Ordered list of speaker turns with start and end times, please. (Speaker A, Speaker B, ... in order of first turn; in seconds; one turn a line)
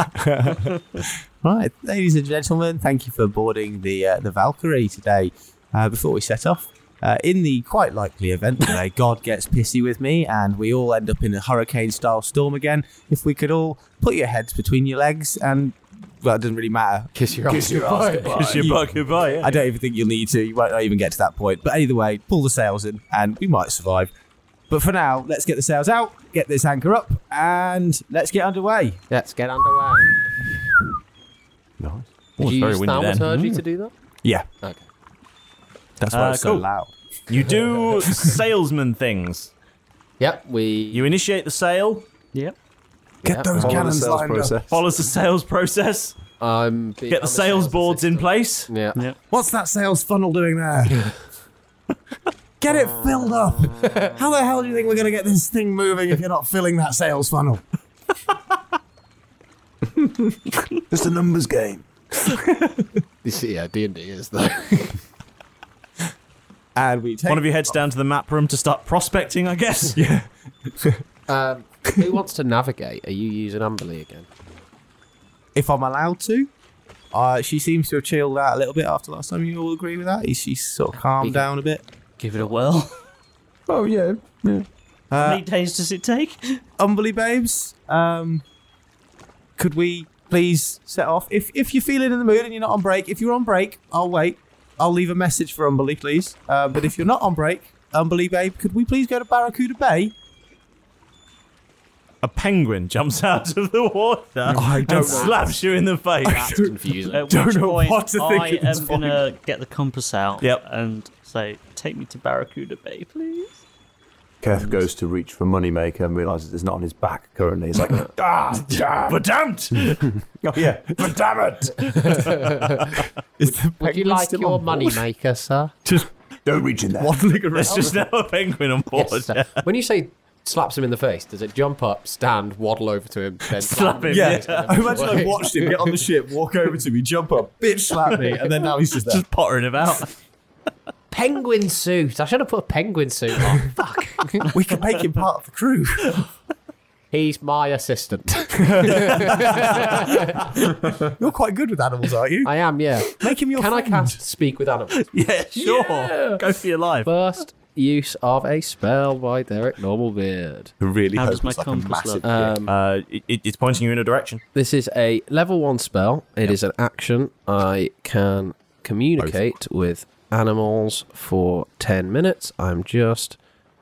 Speaker A: 0.2-17.1
Speaker B: 17.1-18.5
Speaker C: 17.5-18.9
Speaker D: 18.4-19.6
Speaker A: 18.5-24.1
Speaker A: 24.7-29.0
Speaker B: 29.1-30.1
Speaker D: 32.4-33.3
Speaker B: 32.4-33.9
Speaker E: 33.3-33.6
Speaker A: 36.0-37.6
Speaker D: 36.1-36.7
Speaker D: 37.3-39.5
Speaker B: 40.2-41.1
Speaker D: 40.9-42.1
Speaker B: 43.2-43.5
Speaker A: 43.2-44.6
Speaker C: 43.5-44.8
Speaker D: 43.6-43.9
Speaker D: 44.7-46.2
Speaker B: 46.4-49.0
Speaker D: 47.1-48.7
Speaker A: 49.3-51.1
Speaker A: 52.6-57.6
Speaker C: 60.9-61.9
Speaker A: 62.3-62.9
Speaker B: 63.2-65.0
Speaker A: 66.8-67.5
Speaker D: 67.3-70.0
Speaker A: 69.9-71.0
Speaker B: 71.3-74.3
Speaker A: 75.5-76.5
Speaker A: 77.1-81.8
Speaker B: 81.2-81.5
Speaker E: 82.2-82.9
Speaker C: 83.7-84.7
Speaker A: 85.1-85.5
Speaker E: 85.2-86.6
Speaker A: 86.8-88.4
Speaker A: 89.6-100.2
Speaker D: 102.2-106.5
Speaker A: 104.5-105.4
Speaker B: 104.9-105.4
Speaker A: 106.2-106.7
Speaker B: 106.3-107.3
Speaker E: 107.1-113.6
Speaker A: 107.3-109.2
Speaker C: 114.4-119.2
Speaker D: 119.1-120.1
Speaker C: 120.4-122.3
Speaker B: 122.0-125.7
Speaker A: 123.4-125.0
Speaker C: 126.5-127.2
Speaker A: 127.0-128.0
Speaker D: 127.5-129.6
Speaker B: 128.9-135.7
Speaker D: 133.6-134.9
Speaker A: 134.1-139.2
Speaker D: 138.9-140.1
Speaker B: 141.1-144.5
Speaker A: 144.5-146.2
Speaker B: 147.1-150.4
Speaker A: 148.6-150.3
Speaker D: 149.5-150.1
Speaker A: 151.1-152.5
Speaker B: 152.4-155.0
Speaker A: 153.1-154.2
Speaker D: 155.0-157.1
Speaker B: 155.6-156.4
Speaker B: 157.0-160.7
Speaker A: 160.8-162.5
Speaker E: 161.1-162.3
Speaker B: 162.2-162.7
Speaker D: 162.7-164.4
Speaker B: 164.6-173.4
Speaker A: 169.2-169.5